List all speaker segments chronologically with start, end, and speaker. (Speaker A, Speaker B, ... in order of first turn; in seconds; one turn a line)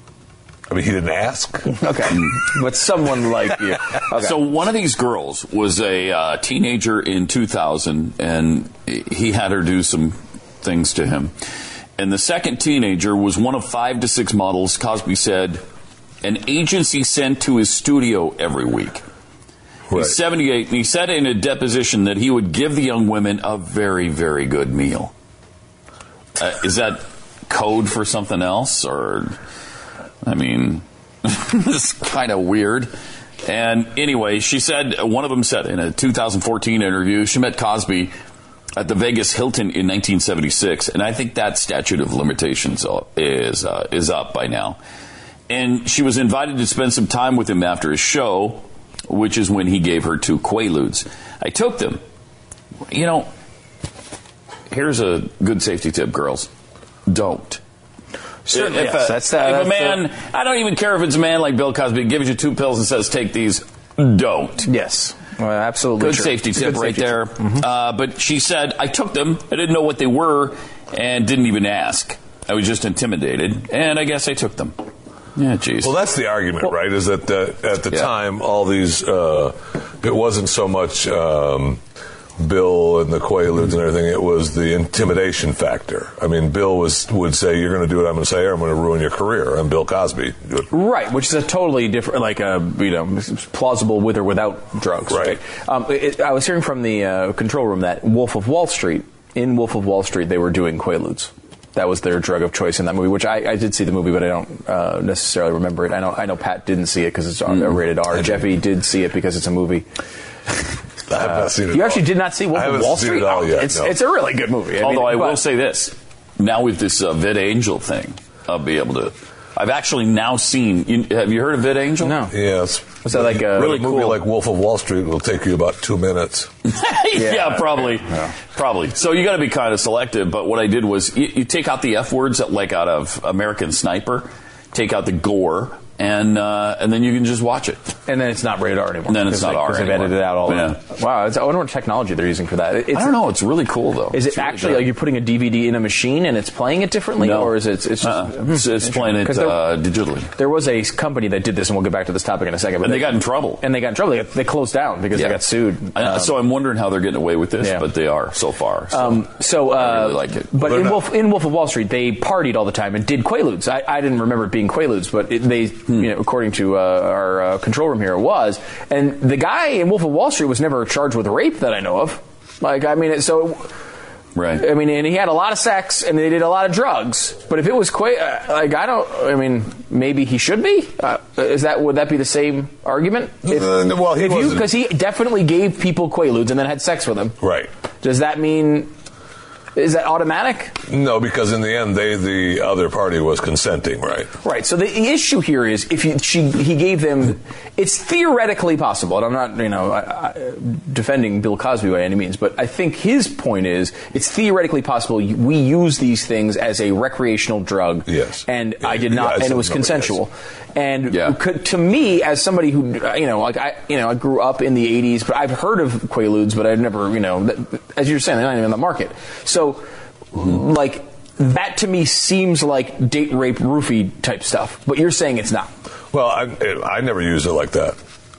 Speaker A: 0.7-1.8
Speaker B: 1.7-4.4
Speaker C: 4.1-11.3
Speaker C: 12.0-15.6
Speaker C: 16.2-19.0
Speaker A: 19.9-20.1
Speaker C: 19.9-25.1
Speaker C: 26.4-29.4
Speaker C: 30.2-32.9
Speaker C: 33.4-38.1
Speaker C: 38.8-44.8
Speaker C: 45.5-52.0
Speaker C: 52.9-53.3
Speaker C: 54.7-56.5
Speaker C: 57.1-57.6
Speaker B: 58.5-60.0
Speaker C: 58.5-64.7
Speaker B: 64.6-67.6
Speaker C: 66.0-74.8
Speaker C: 75.4-75.9
Speaker A: 75.8-81.8
Speaker A: 82.4-90.7
Speaker B: 90.7-109.9
Speaker A: 95.1-95.4
Speaker A: 111.1-114.0
Speaker B: 111.2-115.4
Speaker C: 114.8-122.2
Speaker B: 122.0-122.3
Speaker A: 122.3-126.5
Speaker B: 122.9-123.8
Speaker C: 123.5-124.2
Speaker C: 126.7-137.8
Speaker B: 127.2-128.3
Speaker B: 138.1-143.2
Speaker C: 139.1-140.8
Speaker C: 142.9-144.9
Speaker B: 144.1-149.6
Speaker C: 147.2-150.3
Speaker B: 150.4-156.4
Speaker C: 152.8-153.6
Speaker C: 155.1-155.4
Speaker C: 155.9-160.6
Speaker B: 158.9-173.7
Speaker A: 160.6-161.0
Speaker C: 174.3-174.7
Speaker B: 174.6-187.4
Speaker A: 183.4-184.7
Speaker A: 187.4-187.7
Speaker B: 188.0-188.9
Speaker B: 189.8-190.8
Speaker A: 190.9-194.3
Speaker B: 194.4-225.7
Speaker A: 208.1-210.2
Speaker A: 226.1-228.0